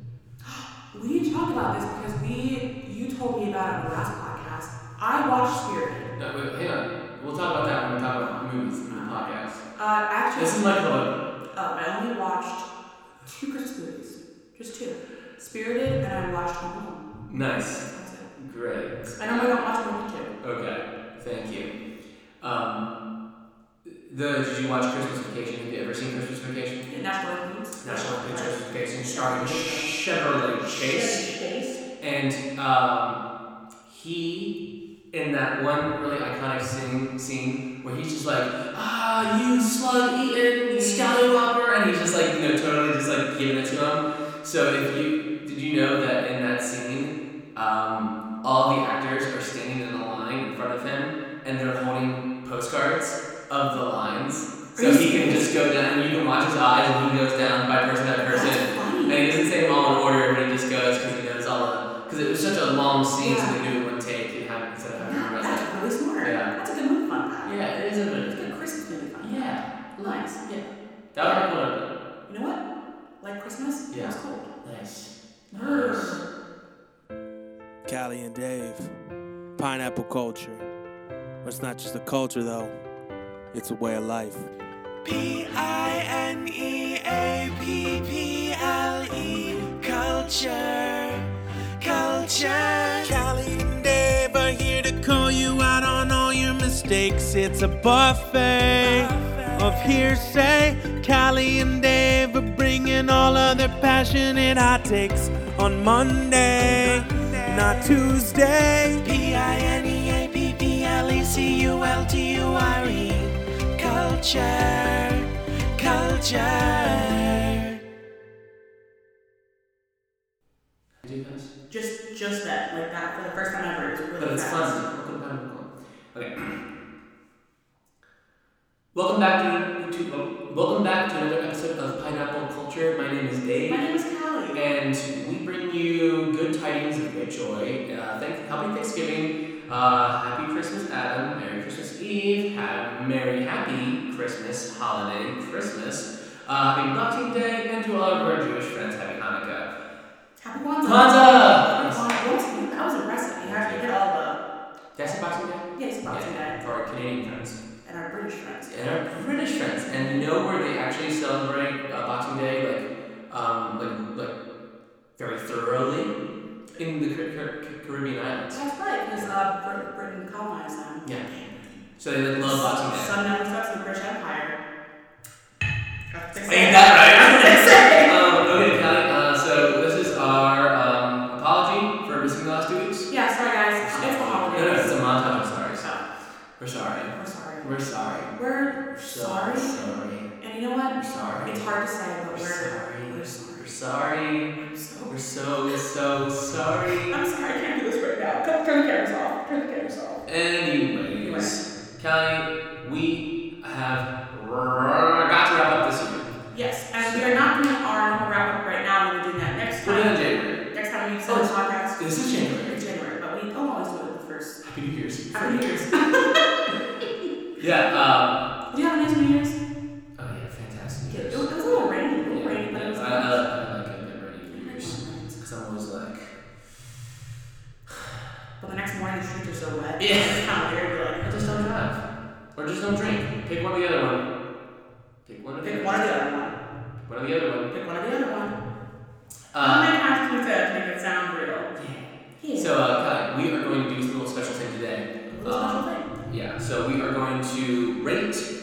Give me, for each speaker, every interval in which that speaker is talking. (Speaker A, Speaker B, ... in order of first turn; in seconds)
Speaker A: 0.4-6.1, 8.3-10.8, 11.5-12.7, 13.2-17.0, 17.9-18.3, 19.2-20.3, 26.9-30.0, 30.6-31.8, 40.7-41.1, 54.8-55.5, 58.3-59.2, 63.2-63.6, 65.0-67.7, 68.3-70.5, 71.2-71.5, 72.3-72.6, 73.2-74.5, 75.5-76.2, 121.7-124.8, 133.7-134.6, 150.4-154.4, 155.7-156.6, 157.8-158.7, 159.9-160.2, 168.5-171.8, 172.4-174.6, 176.1-178.2, 183.1-186.0, 187.1-189.8, 190.4-193.7, 194.6-195.1, 197.1-200.2, 201.2-201.5, 206.5-214.6, 215.3-217.3, 218.7-219.6, 221.1-223.4, 224.5-225.4, 228.6-231.6, 235.6-236.5, 237.7-238.5, 239.6-241.7, 242.4-242.7, 245.3-246.1
Speaker B: 6.2-9.6, 10.3-11.2, 17.3-19.5, 20.4-21.7, 22.4-22.9, 23.8-26.9, 27.8-31.4, 32.0-33.2, 33.8-34.5, 35.1-66.5, 67.4-68.5, 69.2-71.9, 73.9-76.2, 121.0-121.5, 124.2-126.6, 128.9-133.8, 134.5-149.7, 150.8-152.1, 153.4-154.0, 154.9-157.6, 158.7-164.3, 165.2-166.1, 166.8-168.6, 172.0-173.1, 176.4-183.1, 183.8-185.8, 186.6-188.3, 188.9-190.3, 190.9-191.7, 192.3-194.6, 195.1-197.2, 200.2-206.3, 207.0-207.4, 209.8-210.6, 211.3-212.8, 214.6-216.7, 217.6-218.4, 220.2-226.3, 230.0-230.4, 231.2-232.0, 232.6-234.2, 235.2-235.9, 237.1-237.7, 239.5-239.9, 241.7-248.5
Speaker C: 77.9-78.9, 79.6-80.6, 81.4-82.7, 83.5-84.5, 85.0-91.3, 91.8-117.7